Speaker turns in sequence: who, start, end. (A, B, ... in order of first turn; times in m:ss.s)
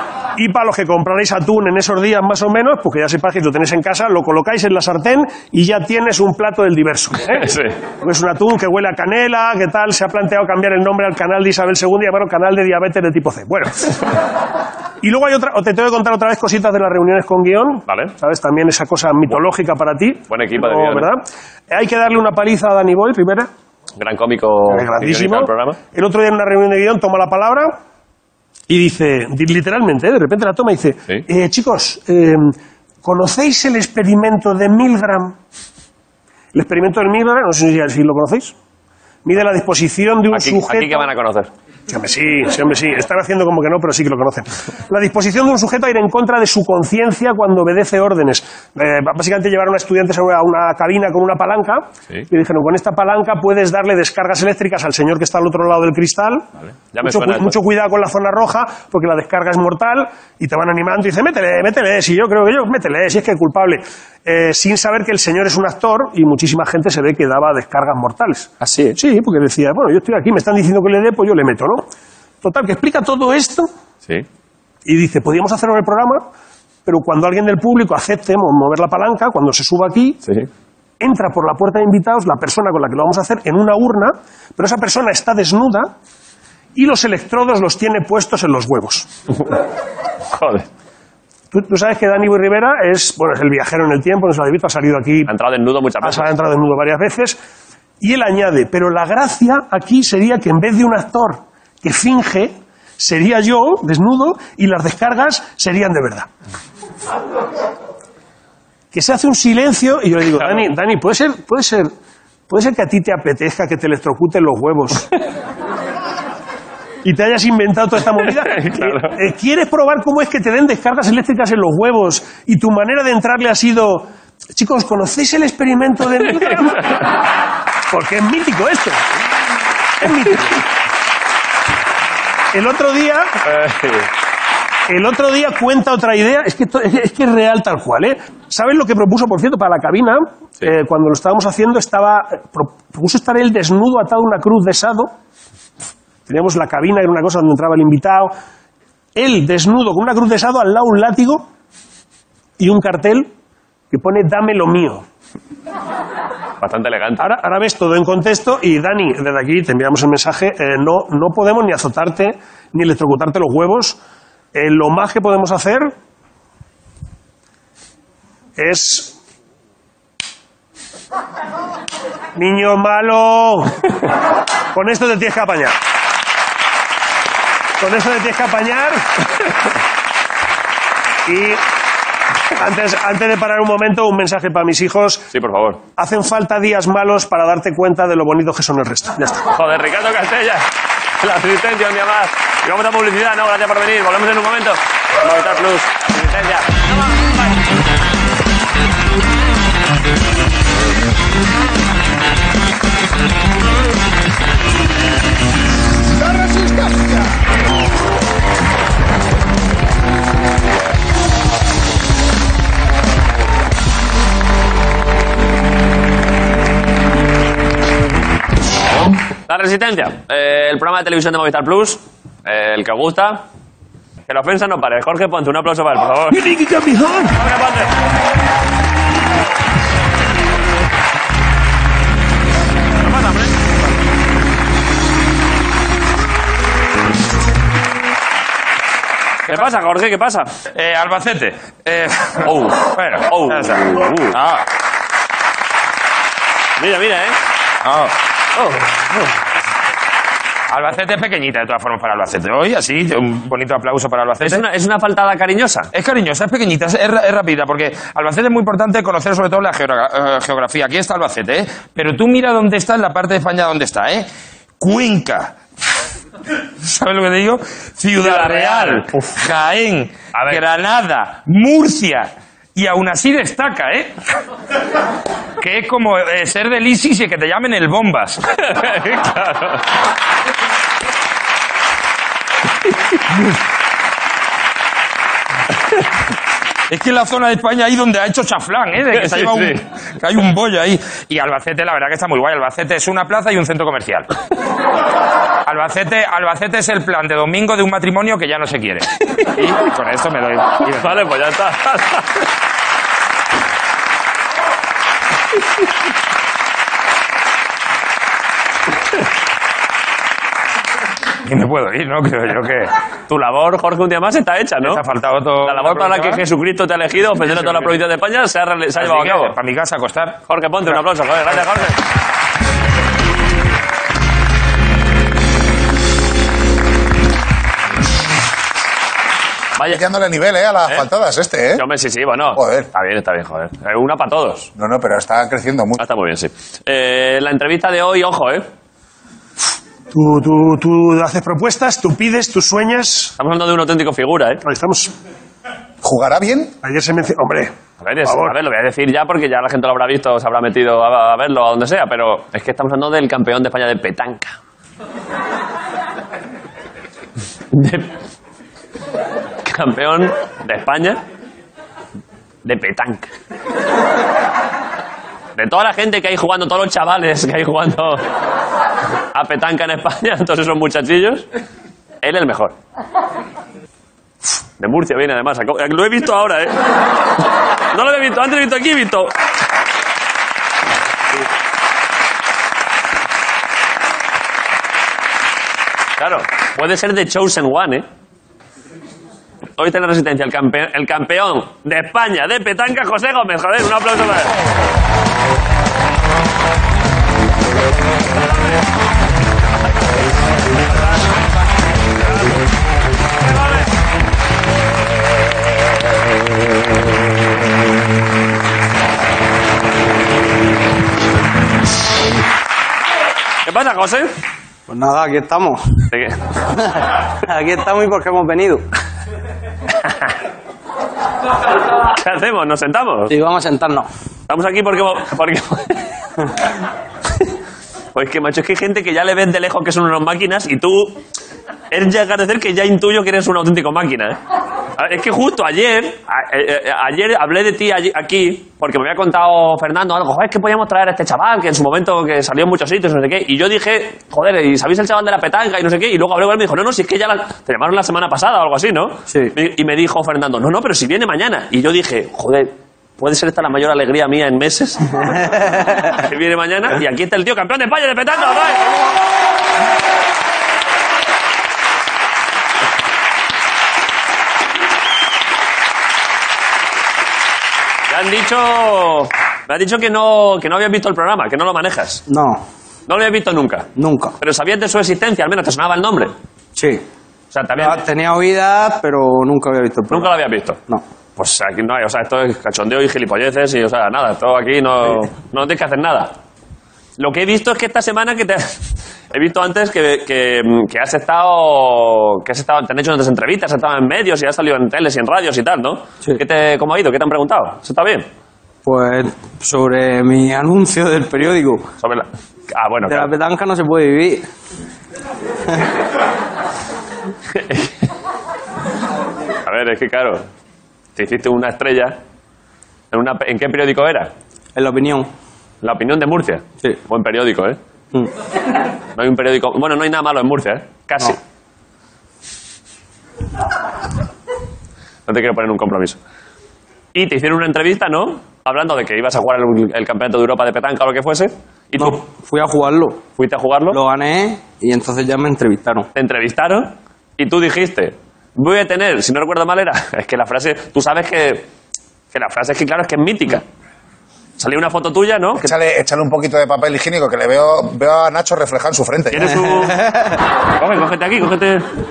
0:00.4-0:14.0 A
0:07.3-0:07.8 B
0:15.0-0:23.5 A
0:17.9-0:18.2 B
0:20.3-0:21.1 B
0:24.0-0:25.8 B
0:24.7-0:27.8 A
0:28.7-0:35.4 A
0:36.5-0:38.6 A
0:39.2-0:41.1 A
0:40.3-0:41.5 B
0:41.9-0:56.5 A
0:56.9-0:57.6 B
0:57.0-1:11.9 A
1:08.6-1:09.0 B
1:12.4-1:13.7 A
1:14.8-1:16.3 A
1:16.9-1:20.2 A
1:20.2-1:20.5 B
1:21.0-1:25.9 A
1:26.8-1:29.1 A
1:30.3-1:30.7 B
1:31.5-1:35.3 A
1:35.3-1:36.3 B
1:36.0-1:37.4 A
1:38.0-1:46.3 A
1:48.9-1:51.9 A
1:52.5-1:55.1 A
1:57.0-2:07.0 A
1:58.2-1:59.2 B
2:07.9-2:09.0 A
2:10.0-2:10.6 A
2:12.5-2:13.4 A
2:13.4-2:14.1 B
2:14.9-2:25.1 A
2:26.3-2:28.3 A
2:29.2-2:31.5 A
2:32.6-2:33.3 A
2:33.9-2:35.0 A
2:36.6-2:37.3 B
2:37.2-2:44.0 A
2:44.5-2:45.9 A
2:48.6-2:49.1 A
2:52.4-2:53.9 A
2:54.7-2:55.8 A
2:57.8-2:59.0 A
3:01.3-3:01.6 A
3:02.5-3:05.3 A
3:05.3-3:05.8 B
3:06.0-3:09.5 A
3:09.5-3:17.4 B
3:39.5-3:43.4 B
3:44.3-3:46.4 B
3:46.3-3:47.4 A
3:47.4-3:47.9 B
3:53.0-3:53.5 B
3:59.5-4:00.5 B
4:00.7-4:02.5 C
4:02.4-4:04.4 B
4:03.2-4:04.6 C
4:06.8-4:07.4 B
4:07.8-4:08.1 C
4:08.6-4:09.3 B
4:10.7-4:14.6 C
4:14.4-4:15.9 B
4:15.9-4:24.3 C
4:24.8-4:25.6 C
4:26.8-4:34.1 C
4:28.2-4:29.1 B
4:30.3-4:30.6 B
4:35.6-4:38.4 C
4:38.7-4:39.8 B
4:46.9-4:54.3 C
4:49.1-4:49.8 B
4:55.7-5:01.2 C
5:00.9-5:02.3 B
5:11.5-5:12.9 C
5:13.3-5:15.0 B
5:14.8-5:16.4 C
5:15.6-5:19.5 B
5:19.0-5:20.4 C
5:20.5-5:22.0 B
5:29.8-5:30.0 B
5:29.9-5:31.8 D
5:31.8-5:34.7 B
5:32.6-5:32.9 D
5:34.8-5:36.0 D
5:36.0-5:38.6 B
5:40.1-5:43.4 A
5:43.4-5:44.6 B
5:44.6-5:45.1 A
5:46.0-5:46.8 D
5:46.8-5:47.7 A
5:48.0-5:54.6 B
5:48.3-5:48.5 A
5:57.7-5:58.1 B
5:59.6-6:01.2 B
6:02.6-6:03.3 B
6:05.6-6:08.2 B
6:09.3-6:11.4 B
6:12.2-6:12.8 B
6:14.8-6:16.8 B
6:17.9-6:19.3 B
6:26.2-6:28.0 B
6:29.8-6:34.5 B
6:53.7-6:54.3 B
6:54.9-6:56.0 E
6:56.1-6:56.4 B
6:56.9-6:58.9 E
7:02.1-7:03.3 B
7:03.3-7:04.1 E
7:04.5-7:06.1 B
7:08.2-7:11.2 B
7:11.9-7:14.4 B
7:15.0-7:35.2 B
7:29.3-7:29.5 E
7:35.3-7:36.1 E
7:36.1-7:39.0 B
7:48.1-7:52.2 B
7:52.3-7:52.6 E
7:53.1-7:53.9 B
7:54.0-7:54.4 E
7:54.4-7:56.3 B
7:56.8-7:57.0 E
7:57.5-7:58.0 B
7:57.8-8:00.3 E
8:00.1-8:00.8 B
8:01.4-8:06.3 B
8:07.2-8:08.8 B
8:09.3-8:18.3 B
8:18.8-8:21.9 E
8:22.0-8:23.3 B
8:23.1-8:24.5 E
8:27.6-8:27.9 B
8:29.6-8:30.4 B
8:31.2-8:32.2 B
8:33.1-8:34.3 B
8:34.8-8:35.3 E
8:35.8-8:37.8 B
8:39.2-8:41.4 B
8:45.3-8:46.2 B
8:47.1-8:52.2 B
8:52.0-8:53.2 E
8:53.4-8:54.0 B
8:53.9-8:56.1 E
8:56.2-9:01.7 B
9:02.3-9:03.6 B
9:04.6-9:05.7 B
9:05.6-9:09.6 D
9:09.3-9:10.0 B
9:09.9-9:10.2 E
9:10.8-9:11.9 B